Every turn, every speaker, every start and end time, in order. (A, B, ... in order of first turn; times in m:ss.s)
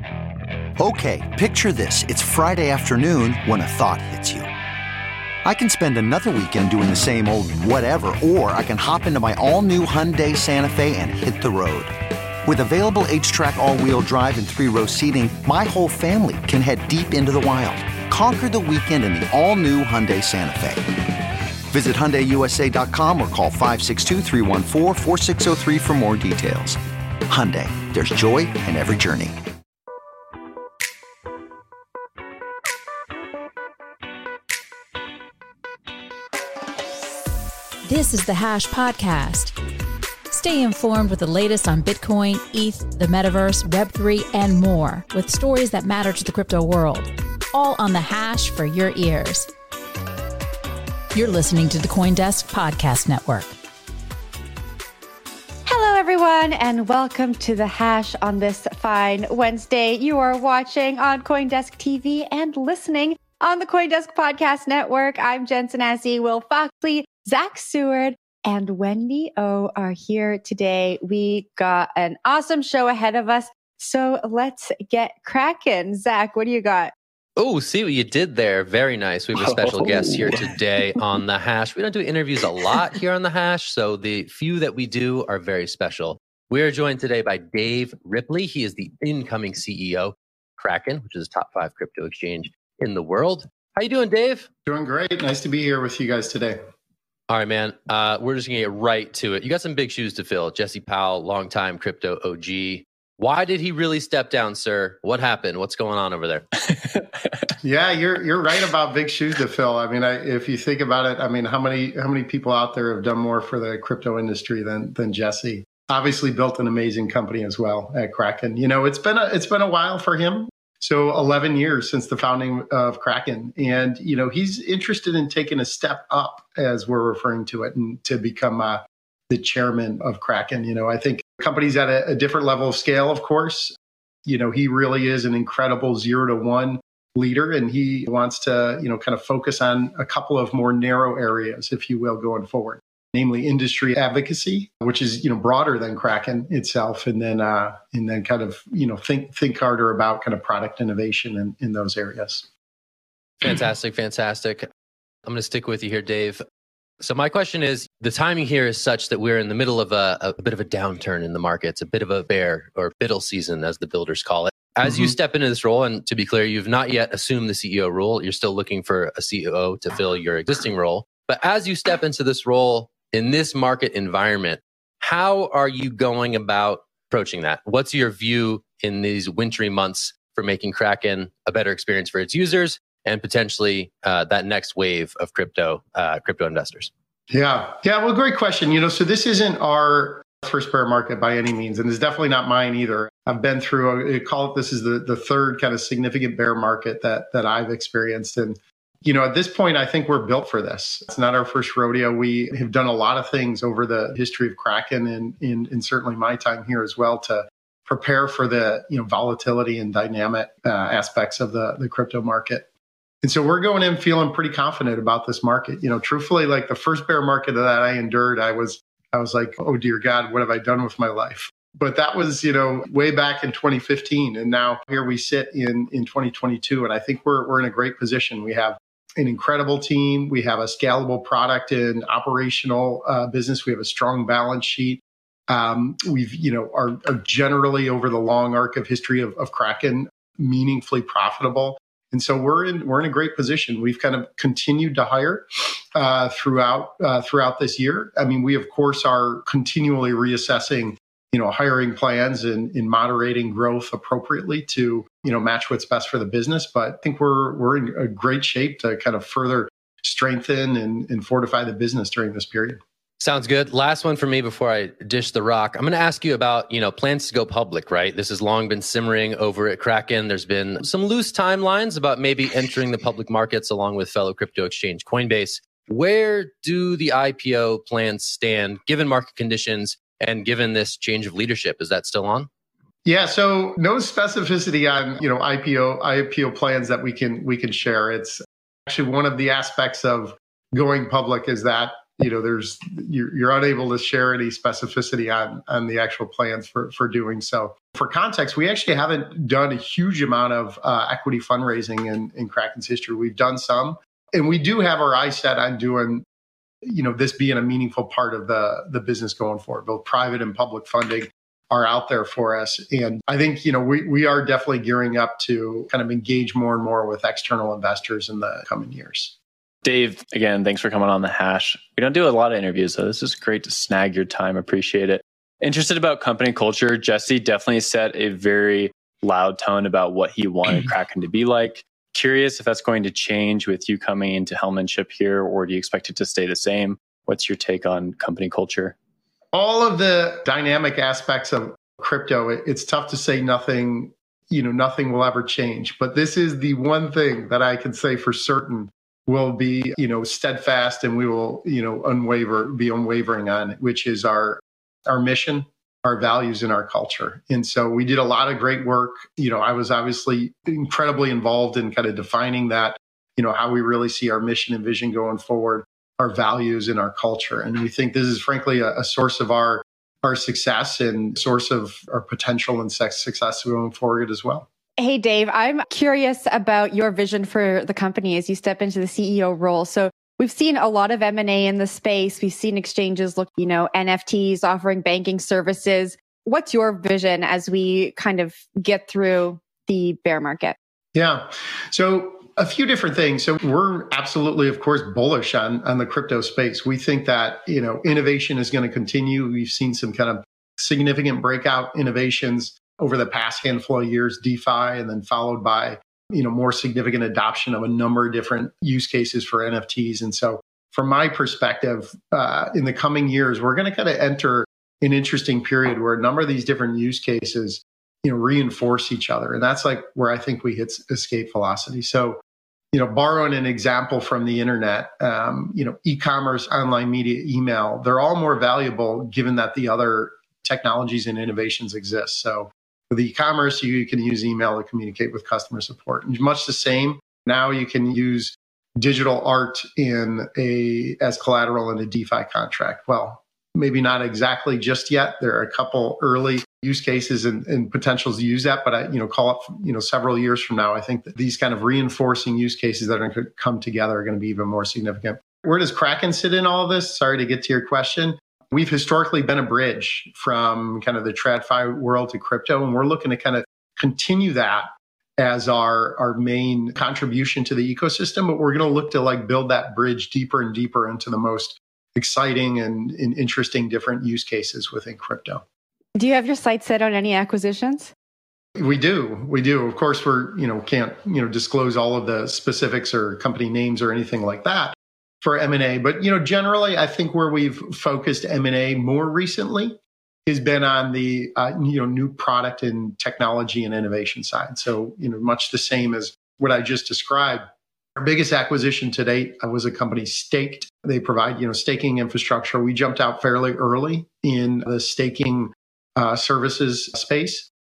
0:00.8-0:04.5 A
0:05.4-0:11.9 A
0:12.4-0:20.9 A
0:21.7-0:29.4 A
0:37.9-0:39.6 B
0:40.3-0:49.5 B
0:51.1-0:53.5 B
0:55.7-1:16.9 C
1:17.4-1:34.5 D
1:19.4-1:20.6 E
1:34.7-1:36.6 F
1:37.3-1:46.4 D
1:46.8-1:47.4 E
1:47.6-2:32.5 F
2:33.4-2:34.7 D
2:35.3-2:36.4 D
2:37.0-3:06.9 D
3:07.3-3:32.7 F
3:33.2-4:22.8 F
4:23.2-4:42.5 D
4:43.0-5:06.2 F
5:06.8-5:19.4 F
5:19.8-5:39.0 E
5:39.5-6:14.6 F
6:15.0-6:30.8 C
6:31.2-7:02.4 F
7:02.9-7:55.6 F
7:56.2-7:58.1 C
7:58.8-8:17.6 F
8:18.2-8:27.7 F